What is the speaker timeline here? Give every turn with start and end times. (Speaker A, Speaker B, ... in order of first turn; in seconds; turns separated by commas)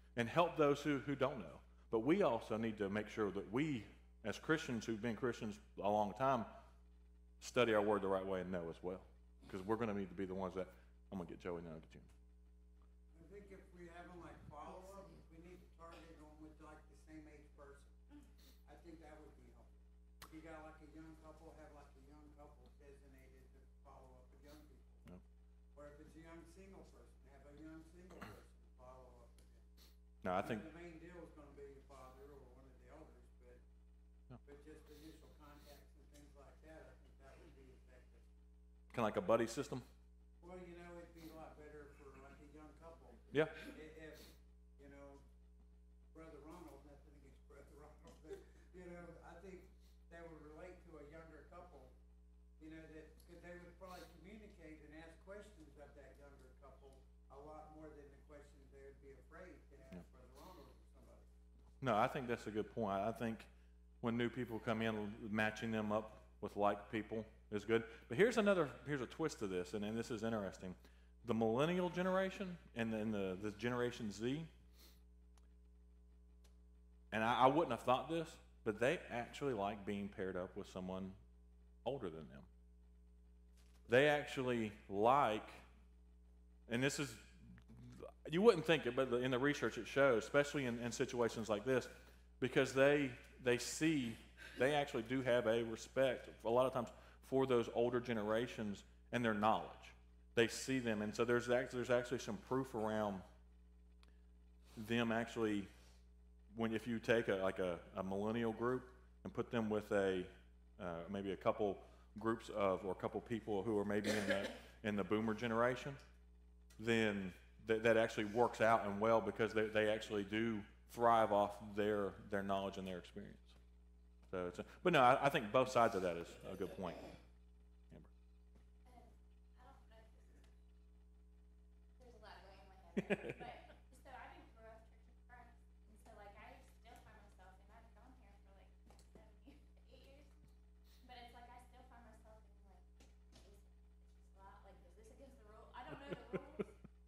Speaker A: 0.1-6.5, Speaker A: 7.4-12.1, Speaker B: 13.1-17.9, Speaker B: 18.6-25.1, Speaker B: 25.7-29.6, Speaker A: 30.2-30.6, Speaker B: 30.3-33.6, Speaker B: 34.4-38.2, Speaker A: 38.9-39.9, Speaker B: 40.4-45.2, Speaker B: 46.1-51.9, Speaker B: 52.6-61.3, Speaker A: 61.8-63.5, Speaker A: 64.0-74.5, Speaker A: 77.1-81.2, Speaker A: 81.8-82.5, Speaker A: 83.9-85.6, Speaker A: 86.7-103.2, Speaker A: 104.8-105.7, Speaker A: 106.5-116.0, Speaker A: 116.8-123.5, Speaker A: 124.3-127.1, Speaker C: 128.8-130.5, Speaker C: 132.0-140.4, Speaker A: 133.0-133.4, Speaker C: 141.0-146.7, Speaker A: 146.1-146.6